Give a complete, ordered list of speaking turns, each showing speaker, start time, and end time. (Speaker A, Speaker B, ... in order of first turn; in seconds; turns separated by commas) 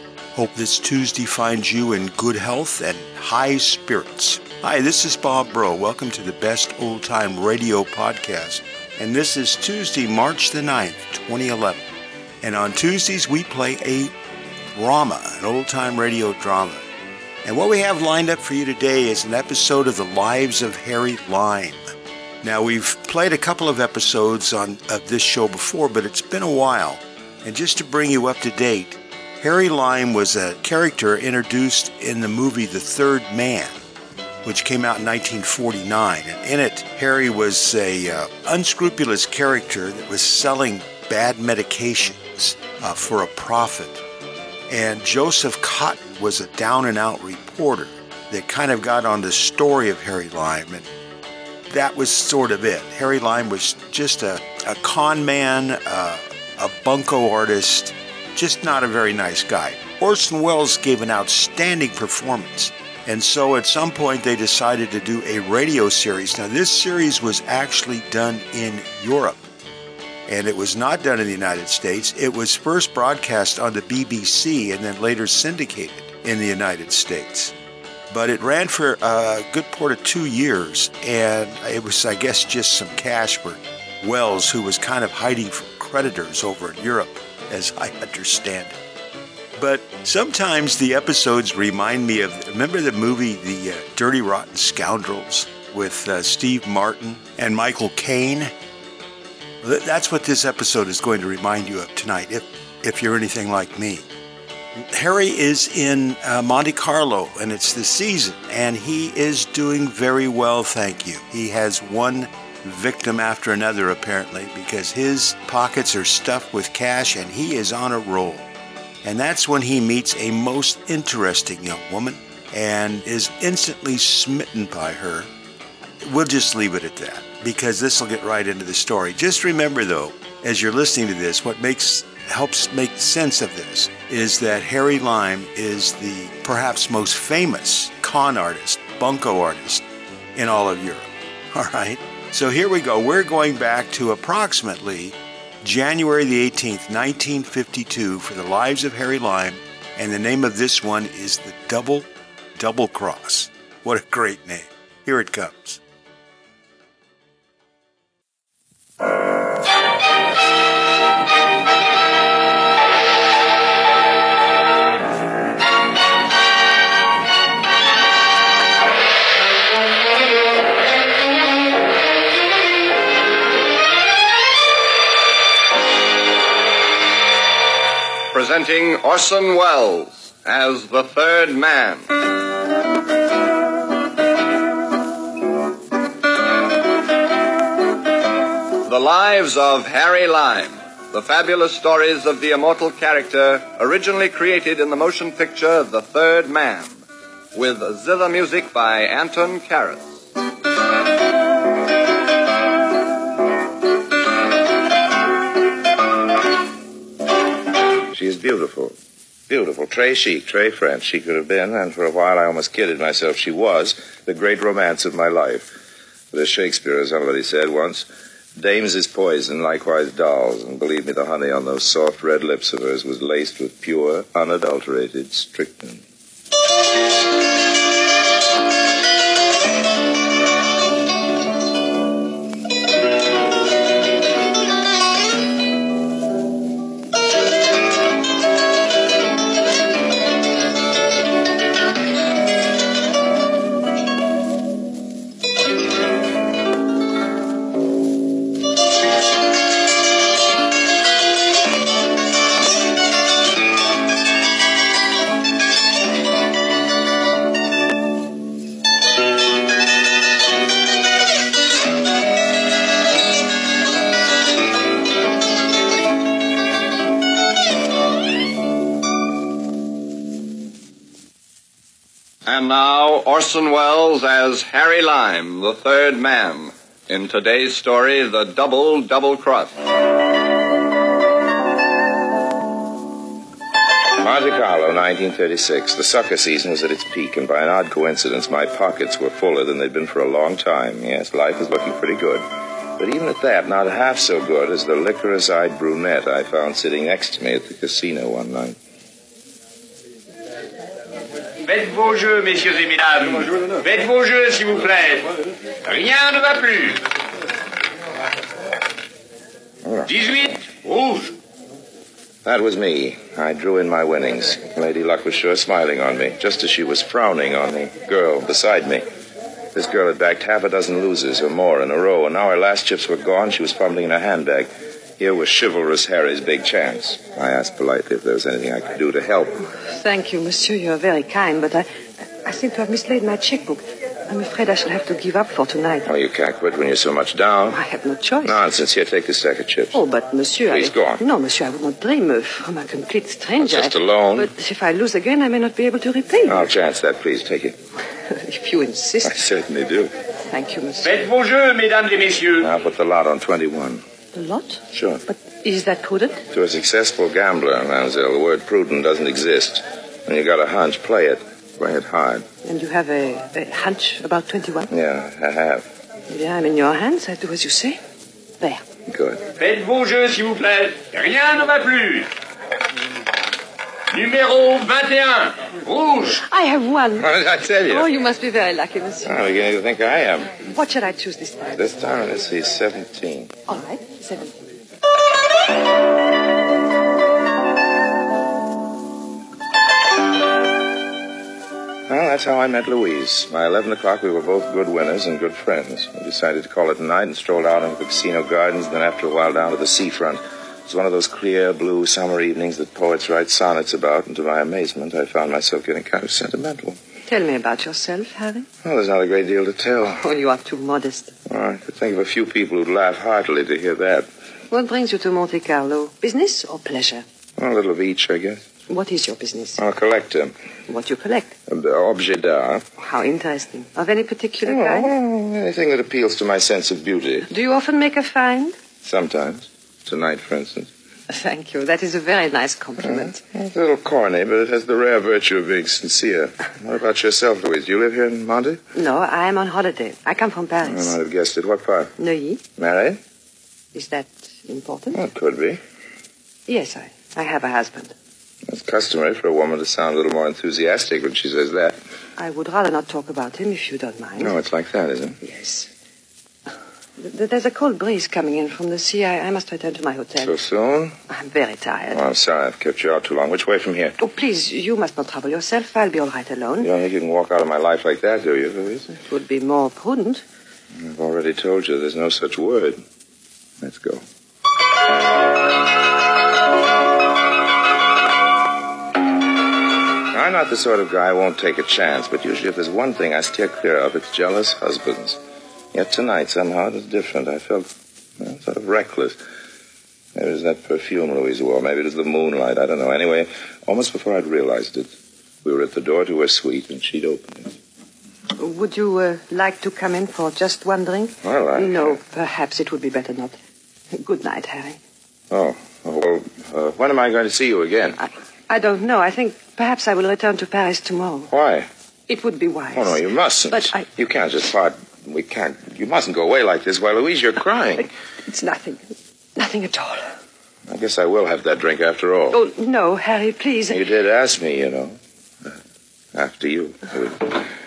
Speaker A: 0.3-11.8, Speaker A: 12.4-14.1, Speaker A: 14.8-16.8, Speaker A: 17.4-21.9, Speaker A: 22.4-33.8, Speaker A: 34.4-44.0, Speaker A: 44.7-50.9, Speaker A: 51.7-69.4, Speaker A: 70.3-77.5, Speaker A: 78.1-88.8, Speaker A: 89.6-98.5, Speaker A: 99.6-104.1, Speaker A: 104.8-118.5, Speaker A: 119.0-125.3, Speaker A: 126.0-139.8, Speaker A: 140.3-155.8, Speaker B: 178.3-182.1, Speaker B: 188.8-197.0, Speaker B: 197.5-200.1, Speaker C: 208.1-208.9, Speaker C: 209.5-215.7, Speaker C: 216.3-226.0, Speaker B: 272.4-279.7, Speaker C: 284.2-298.8, Speaker D: 301.6-305.3, Speaker D: 305.9-307.0, Speaker C: 309.8-310.1, Speaker D: 310.1-311.4, Speaker C: 312.4-319.0, Speaker C: 319.7-329.6, Speaker E: 329.9-331.9, Speaker E: 332.4-336.1, Speaker C: 336.1-337.8, Speaker E: 337.7-338.6, Speaker C: 338.4-340.0, Speaker E: 339.9-346.7, Speaker C: 340.7-341.2, Speaker C: 343.6-344.5, Speaker C: 346.4-347.8, Speaker E: 348.3-349.4, Speaker C: 349.2-350.1, Speaker E: 350.5-351.1, Speaker D: 351.0-352.7, Speaker C: 352.6-354.0, Speaker E: 354.3-356.4, Speaker C: 354.9-355.2, Speaker C: 356.5-362.4, Speaker E: 362.6-364.9, Speaker C: 364.9-365.9, Speaker E: 366.3-368.0, Speaker C: 369.1-369.4, Speaker D: 369.6-372.3, Speaker D: 374.1-376.4, Speaker E: 376.4-377.3, Speaker C: 377.2-378.1, Speaker E: 377.9-379.3, Speaker C: 379.2-380.5, Speaker E: 380.7-381.9, Speaker C: 381.8-383.6, Speaker E: 383.7-384.6, Speaker C: 392.1-407.0, Speaker E: 407.3-408.7, Speaker C: 408.8-410.2, Speaker E: 410.2-411.4, Speaker C: 411.5-414.3, Speaker E: 414.7-417.2, Speaker C: 417.6-418.6, Speaker E: 418.9-419.8, Speaker C: 419.8-420.5, Speaker E: 420.9-421.6, Speaker C: 421.7-422.9, Speaker E: 423.0-425.1, Speaker C: 424.6-427.5, Speaker E: 427.5-428.8, Speaker C: 429.0-430.9, Speaker E: 431.3-433.4, Speaker C: 433.0-438.8, Speaker E: 438.9-441.2, Speaker C: 440.9-442.1, Speaker E: 442.2-442.6, Speaker C: 442.8-443.2, Speaker E: 443.9-445.2, Speaker C: 445.1-445.8, Speaker E: 446.7-448.1, Speaker C: 448.7-452.0, Speaker E: 452.4-454.6, Speaker C: 454.4-455.4, Speaker E: 455.4-455.9, Speaker E: 457.2-460.5, Speaker C: 460.4-461.2, Speaker E: 461.3-462.2, Speaker C: 462.1-464.2, Speaker E: 464.2-466.9, Speaker C: 466.8-469.1, Speaker E: 469.1-470.4, Speaker C: 470.9-473.0, Speaker C: 473.8-474.2, Speaker C: 480.3-485.4, Speaker C: 485.9-489.4, Speaker C: 490.4-495.1, Speaker C: 495.6-497.8, Speaker E: 498.6-503.5, Speaker C: 501.4-502.2, Speaker E: 504.1-505.0, Speaker C: 505.5-508.2, Speaker E: 508.2-511.5, Speaker C: 511.5-511.9, Speaker E: 512.3-514.0, Speaker C: 512.9-518.1, Speaker E: 518.0-520.3, Speaker C: 520.9-522.6, Speaker E: 522.5-524.0, Speaker C: 523.9-525.8, Speaker C: 526.3-527.7